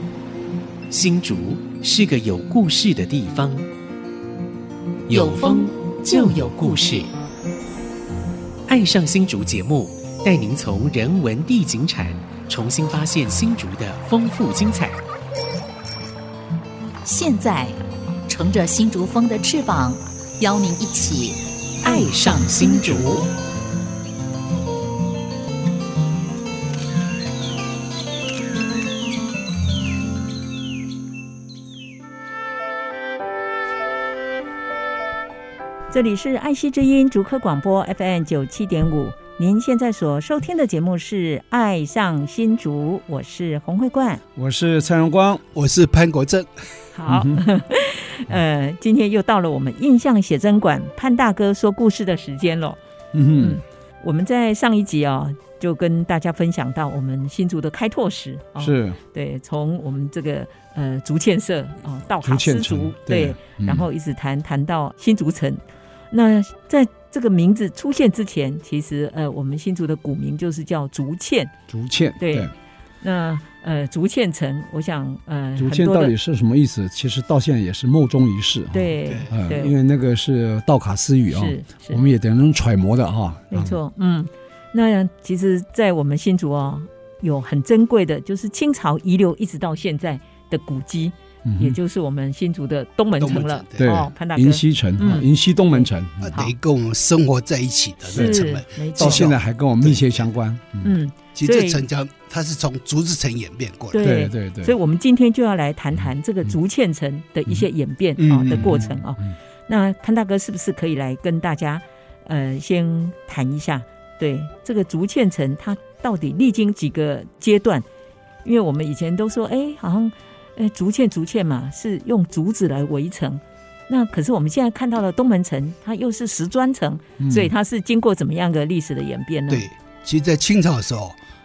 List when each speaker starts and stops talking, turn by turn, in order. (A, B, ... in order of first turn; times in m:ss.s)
0:00.9-0:03.7 A
0:05.1-0:07.1 A
0:05.1-0:07.0 B
0:08.7-0:15.0 A
0:17.0-0:17.8 B
0:18.3-0:23.3 B
0:21.8-0:23.2 A
0:35.9-0:44.2 C
0:44.4-0:45.4 D
0:45.5-0:46.5 E
0:46.9-0:52.8 C
0:47.1-0:47.4 D
0:53.1-0:53.6 D
0:53.4-1:11.5 C
0:58.6-0:59.0 D
1:02.2-1:03.8 D
1:11.7-1:12.5 D
1:12.2-1:12.5 C
1:13.0-1:16.1 C
1:15.6-1:23.8 D
1:18.7-1:19.7 C
1:21.3-1:22.0 C
1:23.5-1:36.5 C
1:31.4-1:31.8 D
1:33.2-1:33.9 E
1:33.8-1:36.3 D
1:36.2-1:40.3 E
1:38.1-1:39.3 C
1:38.1-1:40.9 D
1:40.8-1:41.8 C
1:41.4-1:44.2 E
1:43.9-1:57.8 C
1:44.0-1:44.8 D
1:48.2-1:48.9 E
1:48.6-1:49.3 D
1:58.4-2:09.6 C
2:07.2-2:07.5 D
2:09.5-2:11.2 E